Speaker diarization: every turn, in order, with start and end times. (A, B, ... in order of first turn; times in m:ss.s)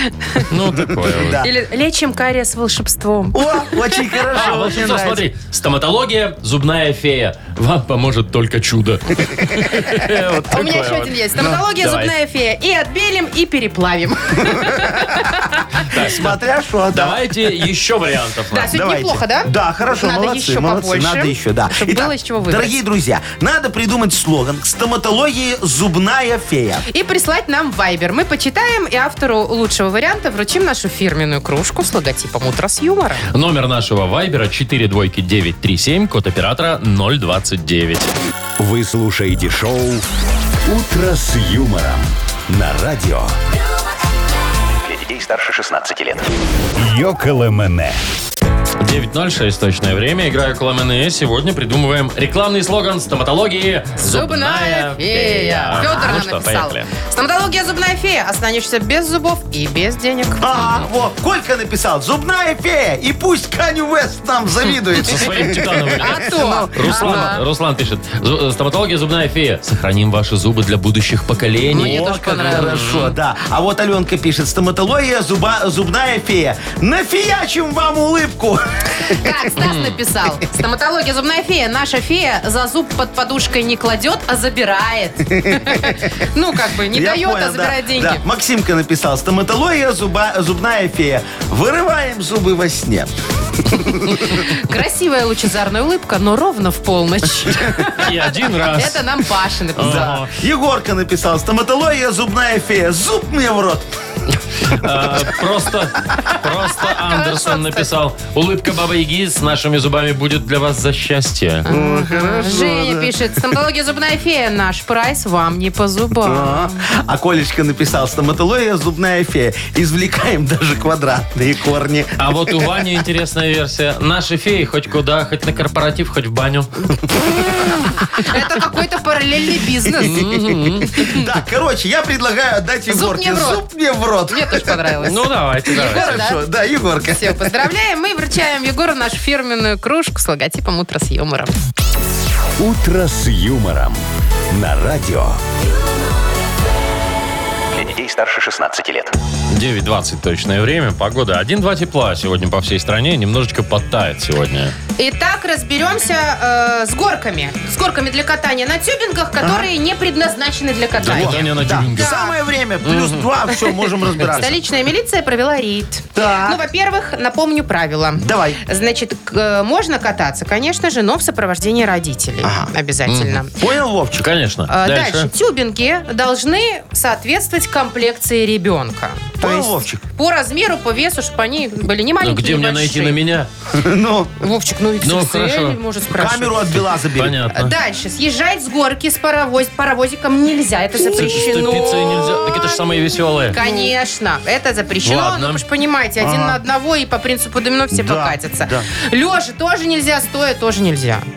0:00.4-0:01.4 A
0:00.9-0:01.5 B
0:01.4-0:04.5 C
0:03.3-0:05.2 B
0:04.3-0:11.2 A
0:10.5-0:15.8 C
0:11.8-0:12.1 A
0:14.4-0:15.3 B
0:15.8-0:16.4 A
0:16.0-0:17.3 B
0:16.9-0:18.7 A
0:18.5-0:22.8 C
0:18.7-0:26.8 B
0:26.9-0:33.3 C
0:33.3-0:38.1 A
0:38.6-0:40.0 D
0:40.6-0:43.4 D
0:44.8-0:46.3 E
0:46.7-0:48.0 D
0:48.8-0:56.9 A
0:54.0-1:00.5 C
1:00.4-1:07.3 B
1:05.0-1:13.1 A
1:06.0-1:07.4 C
1:11.7-1:13.0 C
1:11.7-1:19.2 B
1:19.0-1:28.2 C
1:19.6-1:19.9 A
1:25.3-1:26.0 B
1:26.9-1:34.4 B
1:34.2-1:40.1 C
1:38.0-1:39.1 A
1:39.8-1:40.3 A
1:39.8-1:43.9 B
1:44.6-1:51.7 A
1:46.8-1:47.8 C
1:51.6-1:56.8 C
1:51.6-1:53.1 B
1:56.2-2:02.7 B
2:02.2-2:06.7 A
2:07.2-2:07.7 B
2:08.2-2:10.2 C
2:09.9-2:15.0 B
2:10.1-2:11.0 A
2:10.9-2:11.2 C
2:12.9-2:13.6 C
2:14.3-2:16.4 C
2:15.0-2:16.3 A
2:15.7-2:17.5 B
2:17.1-2:21.5 C
2:22.6-2:25.4 D
2:27.7-2:29.1 E
2:29.5-2:34.7 A
2:35.0-2:42.3 C
2:39.4-2:39.7 B
2:41.0-2:42.2 A
2:41.0-2:44.6 B
2:42.8-2:43.3 A
2:43.6-2:53.5 C
2:46.2-2:46.6 B
2:48.2-2:48.6 B
2:52.4-2:52.7 B
2:53.1-2:53.4 A
2:53.6-2:54.3 B
2:54.2-2:55.3 A
2:54.7-3:03.2 C
2:59.4-3:00.0 B
3:02.2-3:03.5 A
3:03.7-3:04.4 B
3:04.4-3:06.8 C
3:05.0-3:05.8 A
3:06.1-3:07.4 B
3:07.1-3:07.7 A
3:07.5-3:12.8 C
3:11.0-3:12.2 B
3:11.1-3:13.6 A
3:13.5-3:21.3 C
3:13.6-3:13.9 B
3:15.0-3:15.6 A
3:16.2-3:16.6 B
3:17.9-3:18.9 B